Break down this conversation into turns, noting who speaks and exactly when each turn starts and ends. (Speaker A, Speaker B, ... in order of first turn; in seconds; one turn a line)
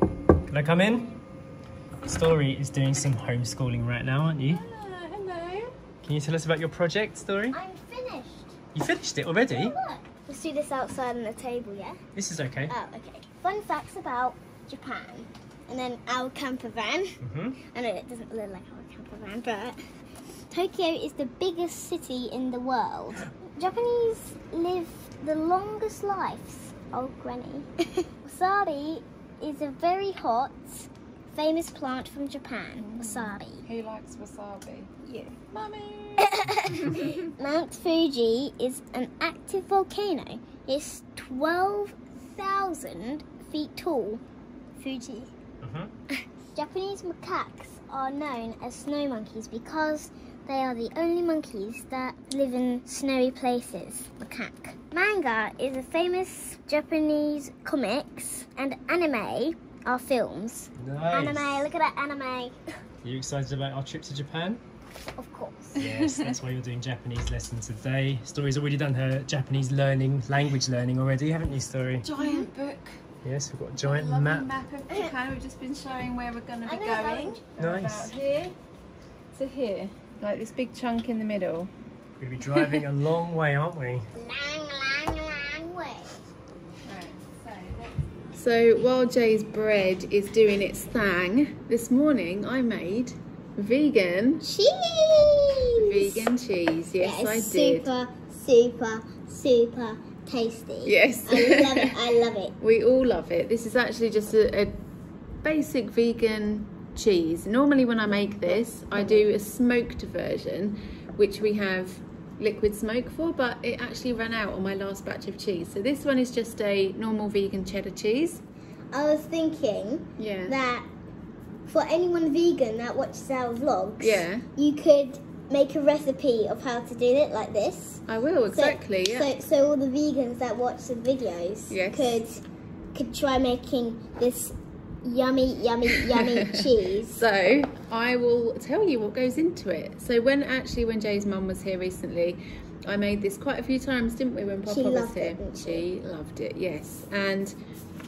Speaker A: 0.5-1.1
Speaker B: 0.9-1.2
Speaker A: 2.0-4.6
Speaker C: 4.5-5.6
Speaker A: 6.0-7.6
Speaker B: 7.5-8.5
Speaker A: 8.7-9.7
Speaker B: 9.5-12.0
Speaker A: 12.1-12.7
Speaker B: 12.7-17.2
Speaker A: 17.2-17.6
Speaker B: 17.7-19.8
Speaker B: 20.5-33.6
Speaker C: 32.8-34.9
Speaker B: 35.0-35.4
Speaker C: 35.5-37.2
Speaker B: 36.2-44.2
Speaker B: 44.8-45.3
Speaker A: 45.6-45.9
Speaker B: 46.4-62.6
Speaker A: 60.8-61.7
Speaker A: 63.0-64.6
Speaker B: 65.2-65.8
Speaker C: 65.8-66.3
Speaker A: 65.8-72.1
Speaker C: 72.0-73.0
Speaker B: 72.2-72.5
Speaker A: 73.2-74.5
Speaker C: 73.8-78.5
Speaker B: 76.7-77.4
Speaker A: 77.6-78.1
Speaker C: 79.3-81.7
Speaker A: 82.2-84.1
Speaker B: 84.2-86.2
Speaker C: 86.8-94.4
Speaker B: 94.4-96.3
Speaker C: 95.8-97.9
Speaker B: 97.0-102.5
Speaker C: 100.8-101.9
Speaker C: 102.6-104.7
Speaker C: 105.4-118.4
Speaker B: 108.9-109.3
Speaker B: 118.9-120.9
Speaker C: 120.2-120.6
Speaker B: 121.7-132.4
Speaker C: 124.0-124.5
Speaker C: 128.1-129.3
Speaker C: 131.7-132.2
Speaker B: 132.9-137.2
Speaker C: 136.0-147.5
Speaker B: 144.7-145.8